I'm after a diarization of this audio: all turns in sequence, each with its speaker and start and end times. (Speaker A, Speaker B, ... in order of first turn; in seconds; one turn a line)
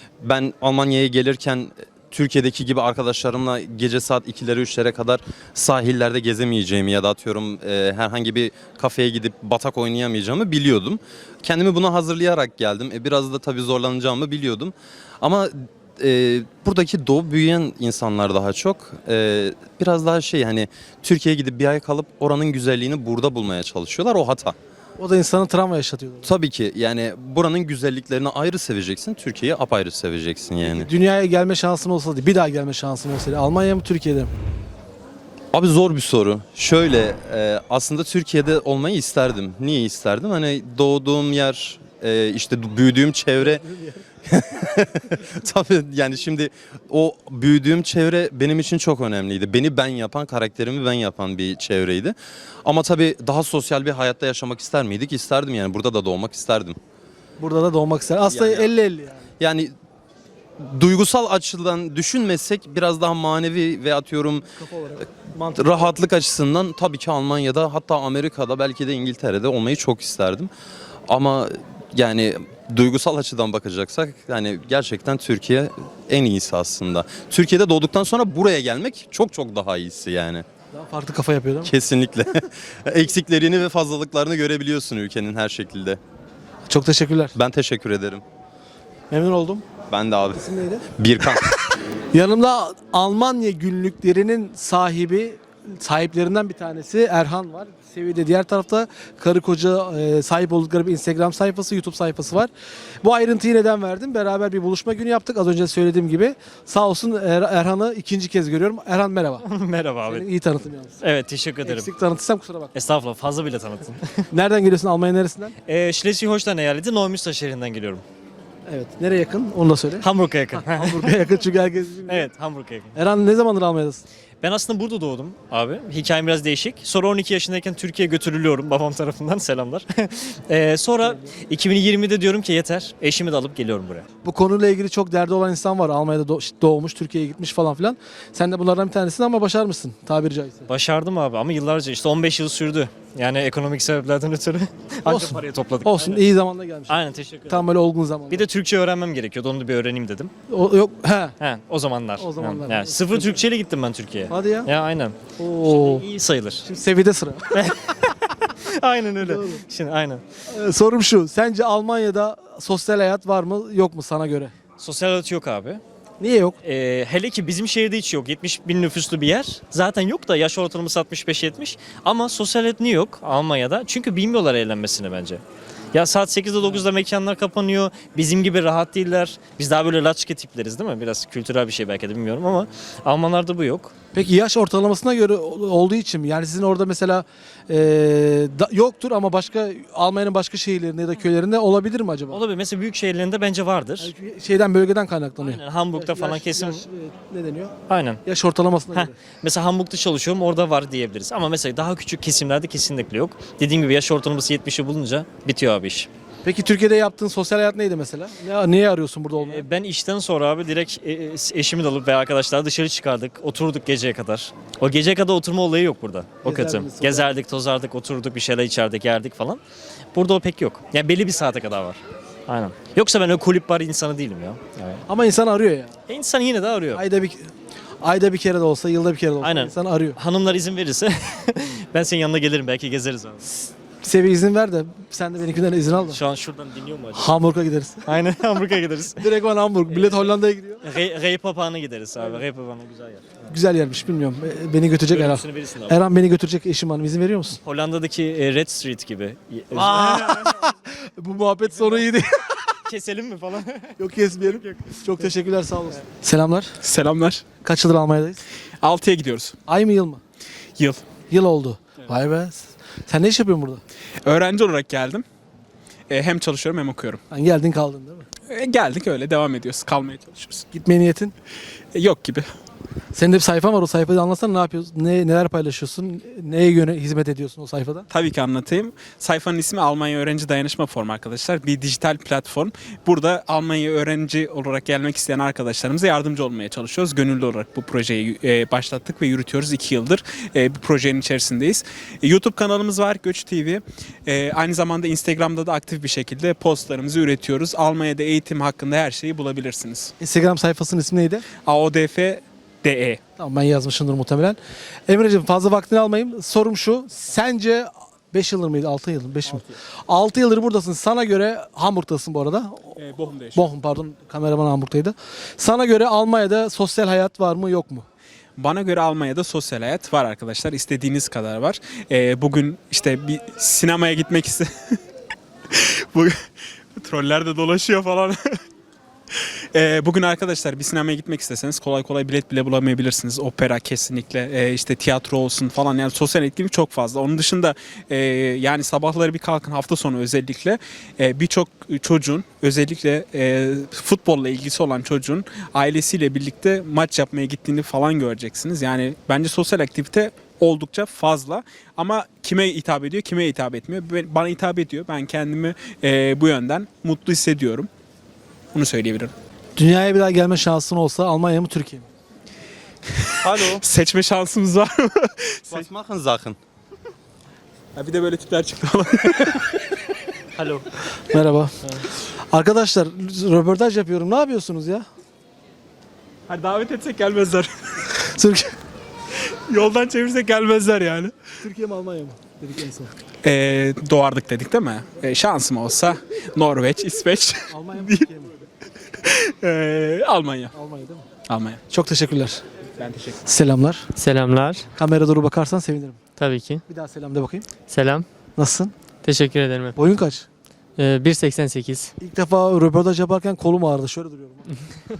Speaker A: 0.2-24.6
Speaker B: 25.0-26.3
Speaker A: 26.2-30.9
Speaker B: 30.6-34.3
Speaker A: 35.5-43.6
Speaker B: 43.4-44.0
Speaker A: 44.3-56.8
Speaker B: 57.4-59.3
Speaker A: 58.3-58.7
Speaker A: 59.4-59.7
Speaker A: 60.6-64.5
Speaker B: 64.6-65.9
Speaker A: 65.5-70.5
Speaker A: 71.1-80.5
Speaker B: 80.7-81.7
Speaker A: 81.6-86.0
Speaker B: 86.7-87.3
Speaker A: 87.3-88.2
Speaker B: 89.1-89.6
Speaker A: 89.9-91.5
Speaker B: 90.4-90.8
Speaker B: 92.1-102.5
Speaker B: 103.0-109.5
Speaker C: 109.4-110.2
Speaker B: 110.0-111.0
Speaker C: 111.0-111.9
Speaker B: 111.6-112.7
Speaker C: 112.7-114.3
Speaker B: 114.3-115.5
Speaker C: 115.7-118.0
Speaker B: 118.7-122.3
Speaker C: 120.0-121.2
Speaker C: 122.1-123.0
Speaker B: 123.0-124.0
Speaker C: 124.4-134.1
Speaker B: 134.2-140.7
Speaker C: 140.7-146.3
Speaker B: 145.1-147.0
Speaker C: 146.9-147.7
Speaker B: 147.5-148.5
Speaker C: 148.3-150.3
Speaker B: 150.5-151.4
Speaker C: 151.4-156.7
Speaker B: 152.2-153.4
Speaker B: 154.3-154.7
Speaker B: 155.4-156.1
Speaker B: 156.6-157.5
Speaker C: 158.7-160.2
Speaker B: 159.3-159.6
Speaker B: 160.5-164.5
Speaker C: 164.8-165.8
Speaker B: 166.2-166.6
Speaker C: 166.6-175.4
Speaker C: 175.9-183.9
Speaker B: 184.1-192.4
Speaker C: 192.3-194.1
Speaker B: 194.0-199.1
Speaker C: 195.4-196.8
Speaker C: 197.9-198.2
Speaker C: 198.9-206.1
Speaker B: 206.4-209.6
Speaker C: 209.4-219.6
Speaker B: 216.4-217.2
Speaker C: 220.1-225.0
Speaker B: 225.1-225.9
Speaker C: 226.1-227.0
Speaker B: 226.9-230.2
Speaker C: 229.4-233.5
Speaker B: 234.0-236.2
Speaker C: 236.0-237.3
Speaker B: 237.1-238.1
Speaker C: 238.1-239.2
Speaker B: 239.2-240.8
Speaker C: 239.9-240.3
Speaker C: 240.8-243.4
Speaker B: 243.5-247.6
Speaker C: 245.1-246.0
Speaker C: 247.6-250.5
Speaker B: 249.7-252.6
Speaker C: 252.8-254.9
Speaker B: 254.0-256.8
Speaker D: 256.8-257.5
Speaker B: 257.6-258.4
Speaker D: 258.8-259.6
Speaker B: 259.6-260.2
Speaker D: 260.8-261.1
Speaker B: 261.3-263.8
Speaker D: 264.2-265.2
Speaker D: 266.1-267.2
Speaker B: 267.3-268.2
Speaker D: 268.5-270.7
Speaker B: 270.7-271.3
Speaker D: 271.9-272.5
Speaker B: 273.1-278.1
Speaker D: 278.1-300.1
Speaker B: 300.2-301.4
Speaker D: 301.6-303.2
Speaker B: 303.4-312.9
Speaker D: 313.0-313.7
Speaker B: 313.6-318.1
Speaker D: 318.6-324.7
Speaker D: 325.7-328.4
Speaker D: 329.7-357.9
Speaker D: 358.7-359.3
Speaker B: 359.8-362.1
Speaker D: 363.2-365.9
Speaker A: 363.4-363.8
Speaker A: 365.7-366.6
Speaker D: 367.9-369.8
Speaker D: 370.6-370.9
Speaker B: 371.3-371.8
Speaker B: 372.5-375.1
Speaker D: 376.5-377.7
Speaker B: 378.2-378.8
Speaker D: 379.7-381.6
Speaker B: 381.6-383.1
Speaker D: 383.4-388.3
Speaker B: 387.7-388.5
Speaker D: 389.1-390.7
Speaker B: 390.7-391.2
Speaker D: 391.5-391.8
Speaker B: 391.9-392.6
Speaker D: 393.0-393.4
Speaker B: 393.5-394.1
Speaker E: 394.1-394.9
Speaker B: 395.0-396.2
Speaker E: 396.4-396.8
Speaker B: 396.9-397.6
Speaker E: 397.9-398.3
Speaker B: 398.6-398.9
Speaker E: 399.2-399.9
Speaker B: 399.9-400.4
Speaker E: 401.0-402.1
Speaker B: 402.2-404.7